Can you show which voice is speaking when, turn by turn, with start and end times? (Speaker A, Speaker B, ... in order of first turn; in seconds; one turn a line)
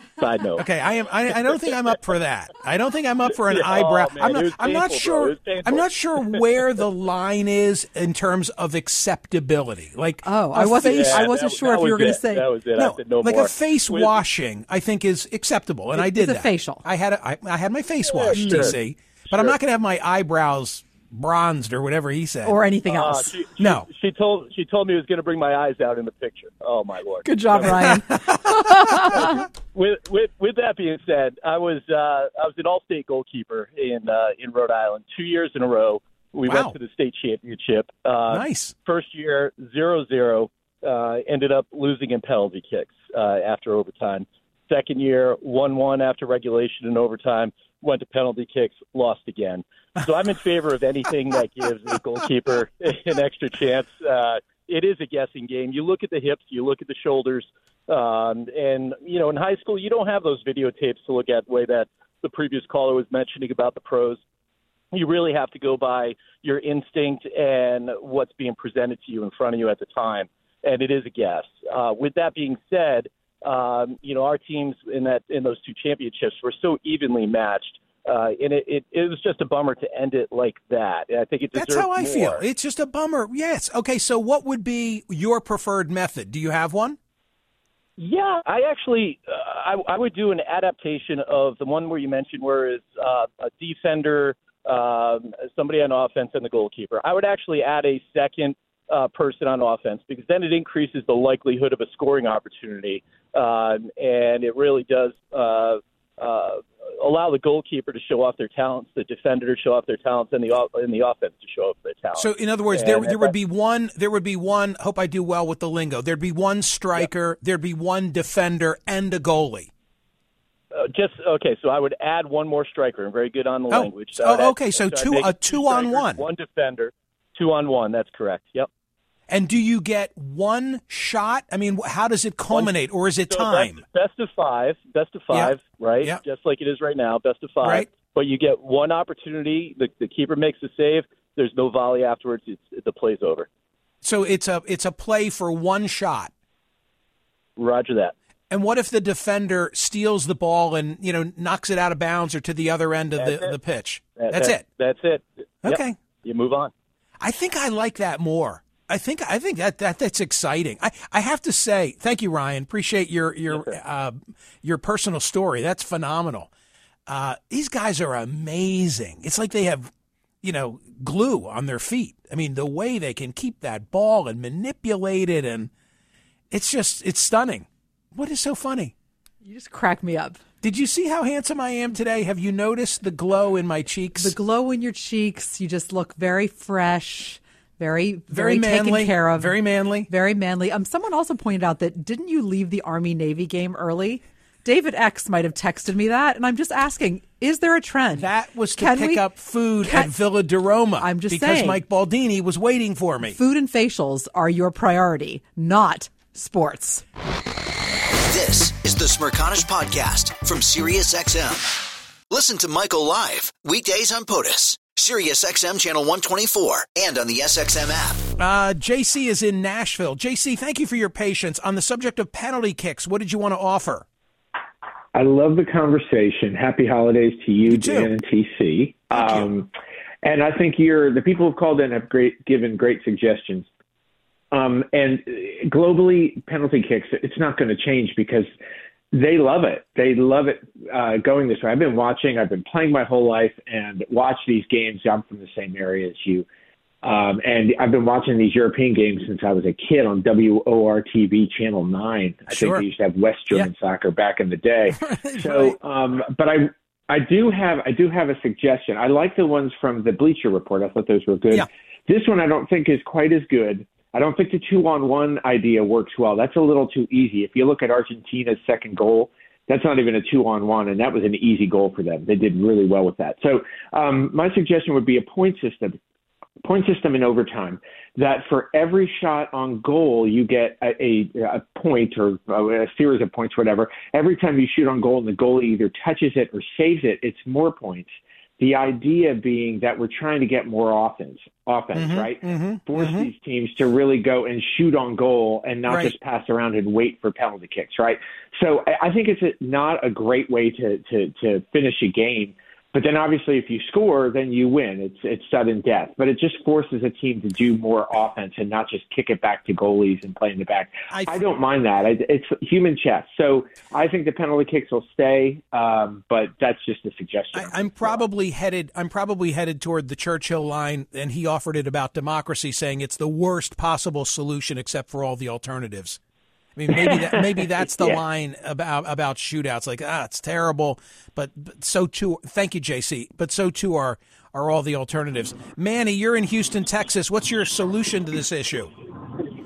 Speaker A: 0.2-0.7
Speaker B: 0.6-11.3
Speaker A: 1.3-1.7
Speaker A: 3.3-6.6
Speaker C: 10.2-12.4
Speaker A: 10.8-14.1
Speaker B: 12.8-22.6
Speaker C: 15.9-16.8
Speaker A: 18.0-18.8
Speaker C: 18.4-18.6
Speaker C: 22.4-23.3
Speaker A: 22.9-28.0
Speaker B: 23.6-23.9
Speaker C: 27.2-29.4
Speaker B: 27.6-29.3
Speaker A: 29.0-64.2
Speaker B: 36.5-36.8
Speaker B: 38.3-38.7
Speaker A: 64.9-82.4
Speaker B: 81.5-87.0
Speaker A: 88.0-113.3
Speaker B: 112.1-119.7
Speaker A: 120.7-128.7
Speaker B: 123.7-126.2
Speaker B: 129.3-133.8
Speaker A: 133.3-143.5
Speaker B: 135.3-136.2
Speaker B: 137.6-137.9
Speaker B: 144.0-146.3
Speaker A: 147.6-148.1
Speaker B: 148.5-154.6
Speaker A: 153.2-153.6
Speaker A: 154.2-156.7
Speaker B: 155.6-156.0
Speaker B: 157.2-166.5
Speaker A: 163.5-163.8
Speaker B: 167.1-169.9
Speaker B: 170.4-175.7
Speaker B: 176.5-178.9
Speaker C: 179.4-180.4
Speaker B: 180.6-184.3
Speaker C: 184.2-199.3
Speaker B: 188.3-190.1
Speaker B: 198.1-203.4
Speaker C: 199.8-200.1
Speaker C: 201.0-201.8
Speaker C: 203.2-207.0
Speaker D: 208.3-218.3
Speaker B: 218.4-224.1
Speaker E: 225.1-229.7
Speaker B: 227.7-228.1
Speaker B: 229.1-229.5
Speaker E: 230.2-233.7
Speaker E: 234.5-238.5
Speaker E: 239.1-246.5
Speaker E: 247.0-276.0
Speaker B: 252.5-252.8
Speaker B: 254.9-255.8
Speaker E: 276.6-318.2
Speaker B: 291.9-293.3
Speaker B: 295.9-296.1
Speaker B: 311.1-311.4
Speaker B: 317.5-326.2
Speaker B: 326.8-338.9